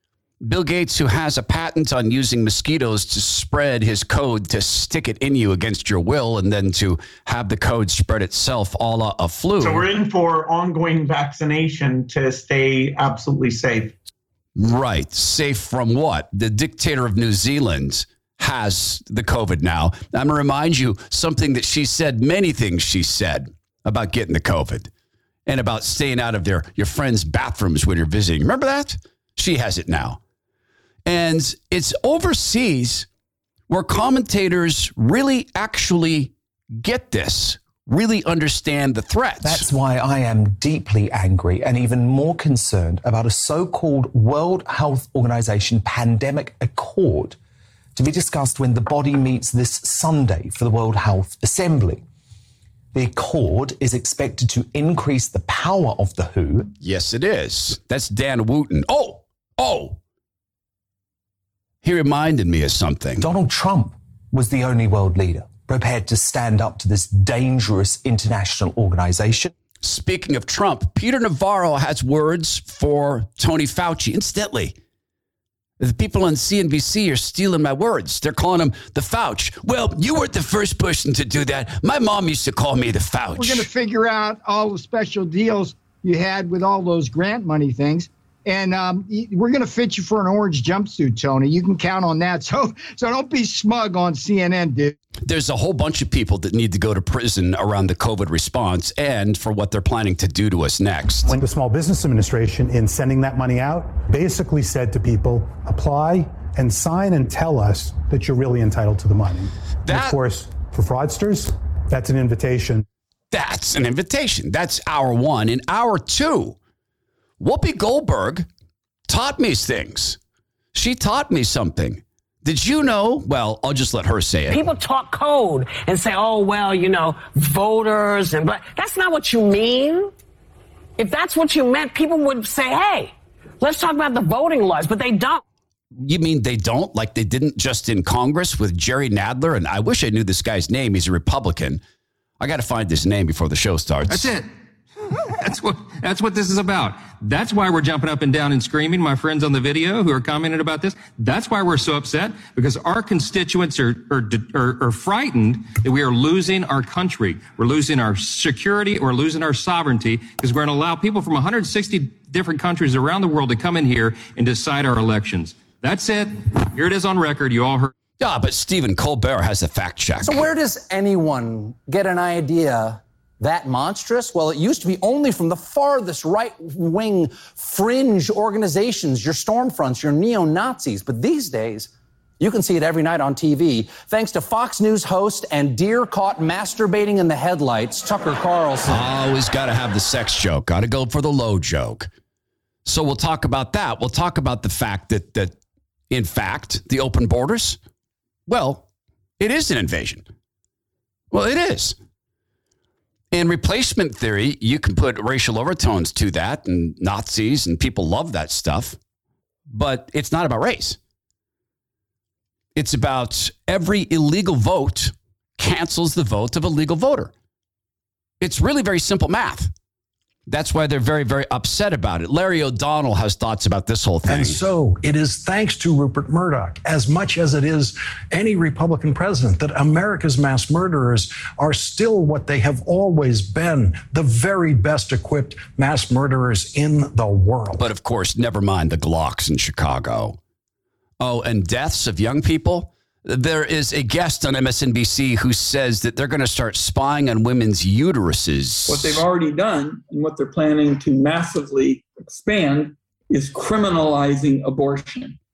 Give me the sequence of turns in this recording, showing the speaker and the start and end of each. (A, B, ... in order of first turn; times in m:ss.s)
0:00.4-0:09.9 A
0:09.6-0:13.9 B
0:14.6-0:24.9 A
0:25.4-0:30.2 A
0:31.0-0:33.1 A
0:33.7-0:39.7 A
0:39.4-0:47.4 C
0:48.0-0:52.0 C
0:52.9-0:56.7 C
0:56.8-1:00.0 A
1:01.8-1:03.2 A
1:03.2-1:09.5 C
1:09.8-1:14.7 A
1:15.8-1:23.7 A
1:23.4-1:34.9 D
1:35.2-1:41.4 A
1:41.2-1:52.8 E
1:49.9-1:50.2 A
1:53.3-1:56.6 A
1:57.4-1:58.4 A
1:59.1-2:00.2 A
2:00.7-2:04.6 A
2:04.5-2:10.1 F
2:11.0-2:15.4 F
2:16.0-2:21.8 A
2:22.4-2:24.3 A
2:24.1-2:24.4 G
2:25.3-2:47.9 G
2:48.2-2:50.4 A
2:50.2-3:09.1 H
3:08.9-3:12.1 A
3:12.8-3:15.5 A
3:16.1-3:17.8 A
3:18.5-3:18.8 A
3:19.4-3:20.2 A
3:21.3-3:22.0 A
3:23.3-3:29.0 A
3:29.7-3:31.0 A
3:32.8-3:37.3 A
3:38.4-3:39.7 A
3:40.5-3:44.6 A
3:44.3-3:57.9 I
3:57.8-4:00.4 A
4:01.2-4:09.2 A
4:08.9-4:15.4 J